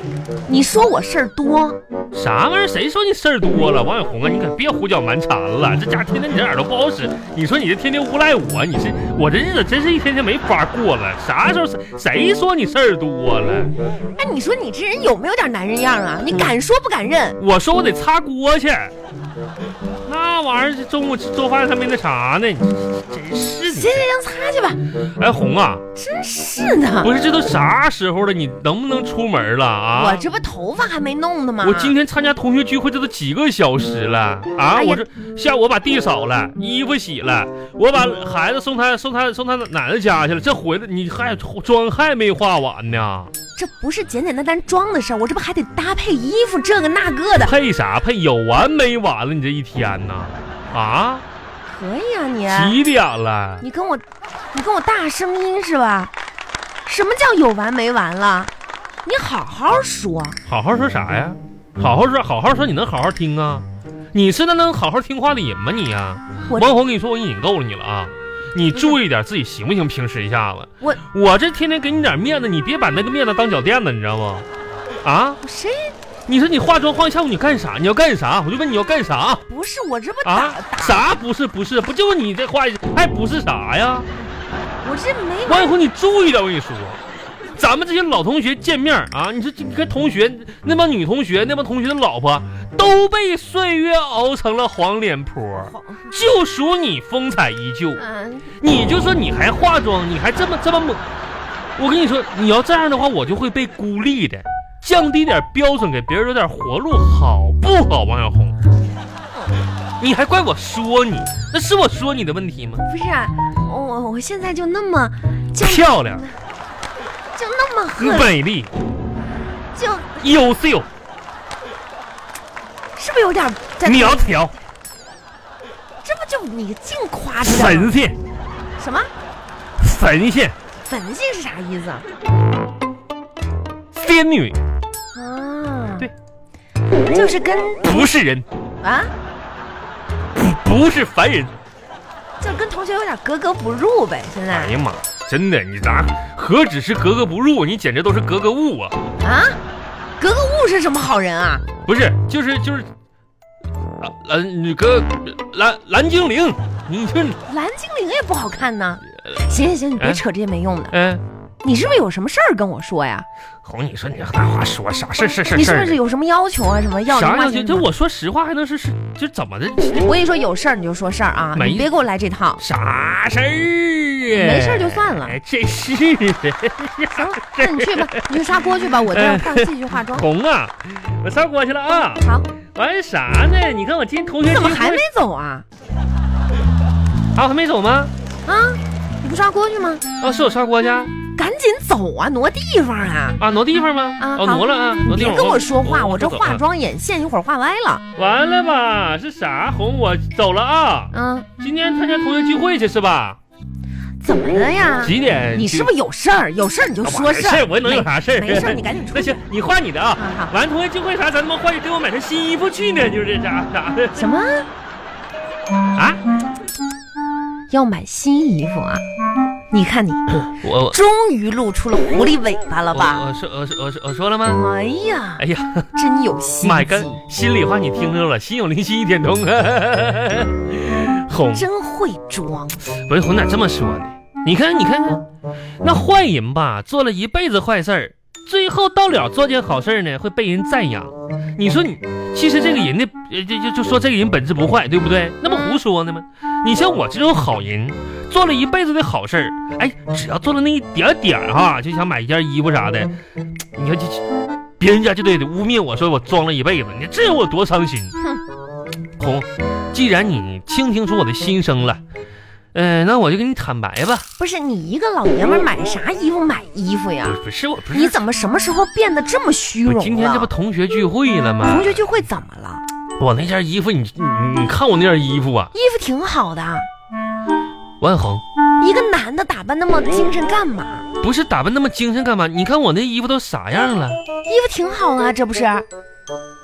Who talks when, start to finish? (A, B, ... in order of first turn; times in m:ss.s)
0:00.5-0:01.8 A
0:02.1-0:13.7 B
0:14.1-0:17.4 A
0:17.4-0:18.9 B
0:20.0-0:24.1 B
0:23.6-0:24.8 A
0:25.2-0:25.8 B
0:25.9-0:27.1 A
0:27.0-0:30.2 B
0:30.0-0:31.9 A
0:31.6-0:43.3 B
0:34.7-0:35.0 A
0:43.6-0:47.5 A
0:47.4-0:51.2 B
0:51.6-0:52.8 A
0:52.5-0:53.6 B
0:53.6-0:56.1 A
0:56.8-0:58.5 A
0:59.0-1:00.4 A
1:00.4-1:14.4 B
1:06.5-1:06.7 A
1:15.0-1:15.4 B
1:15.4-1:15.9 A
1:16.3-1:19.4 B
1:19.5-1:21.1 A
1:20.2-1:24.1 B
1:24.8-1:25.7 A
1:25.4-1:27.0 B
1:27.5-1:38.0 B
1:35.6-1:36.1 A
1:38.0-1:38.5 A
1:38.6-1:41.0 B
1:41.8-1:48.6 B
1:50.0-1:52.8 B
1:52.8-1:56.4 A
1:55.6-1:56.2 B
1:57.3-1:58.3 A
1:58.0-1:58.7 B
1:59.7-2:00.4 A
2:00.2-2:00.9 B
2:02.9-2:04.4 A
2:03.8-2:04.6 B
2:06.0-2:07.9 A
2:07.4-2:08.2 B
2:08.8-2:09.1 A
2:09.8-2:10.6 B
2:10.8-2:12.0 A
2:13.9-2:14.6 B
2:15.1-2:16.1 A
2:17.0-2:18.1 A
2:17.8-2:18.5 B
2:18.8-2:19.1 A
2:20.3-2:21.5 B
2:22.4-2:24.8 A
2:24.5-2:29.0 B
2:29.2-2:29.6 A
2:30.2-2:31.6 A
2:31.8-2:32.9 B
2:34.0-2:37.4 B
2:37.4-2:40.9 A
2:40.0-2:40.2 B
2:40.9-2:41.2 B
2:41.6-2:43.2 A
2:43.6-2:46.0 B
2:45.4-2:47.9 A
2:47.0-2:50.1 B
2:49.9-2:52.6 A
2:51.6-2:51.9 B
2:52.6-3:05.0 B
2:54.3-2:55.4 A
2:57.1-3:00.2 A
3:02.2-3:02.5 A
3:04.4-3:05.6 A
3:07.3-3:08.1 B
3:08.4-3:10.0 A
3:10.2-3:11.1 B
3:11.4-3:13.4 A
3:13.4-3:16.6 B
3:14.2-3:18.0 A
3:18.2-3:23.4 B
3:21.1-3:21.5 A
3:24.2-3:29.4 A
3:25.0-3:25.9 B
3:27.0-3:34.2 B
3:30.2-3:30.5 A
3:34.2-3:34.7 A
3:35.9-3:36.2 B
3:37.7-3:39.0 A
3:39.7-3:43.2 A
3:40.5-3:41.0 B
3:42.9-3:44.6 B
3:44.4-3:47.2 A
3:45.4-3:45.9 B
3:46.6-3:51.7 B
3:51.5-3:52.8 A
3:52.9-3:55.2 B
3:55.8-4:13.2 B
4:05.5-4:05.8 A
4:13.7-4:14.2 B
4:14.8-4:18.2 B
4:19.2-4:22.0 B
4:22.7-4:24.2 B
4:24.4-4:27.4 A
4:27.2-4:28.2 B
4:27.9-4:30.5 A
4:29.8-4:32.0 B
4:31.6-4:32.8 A
4:33.2-4:35.7 B
4:35.7-4:36.9 A
4:38.0-4:38.4 B
4:38.8-4:41.0 A
4:41.2-4:44.2 B
4:44.4-4:45.8 A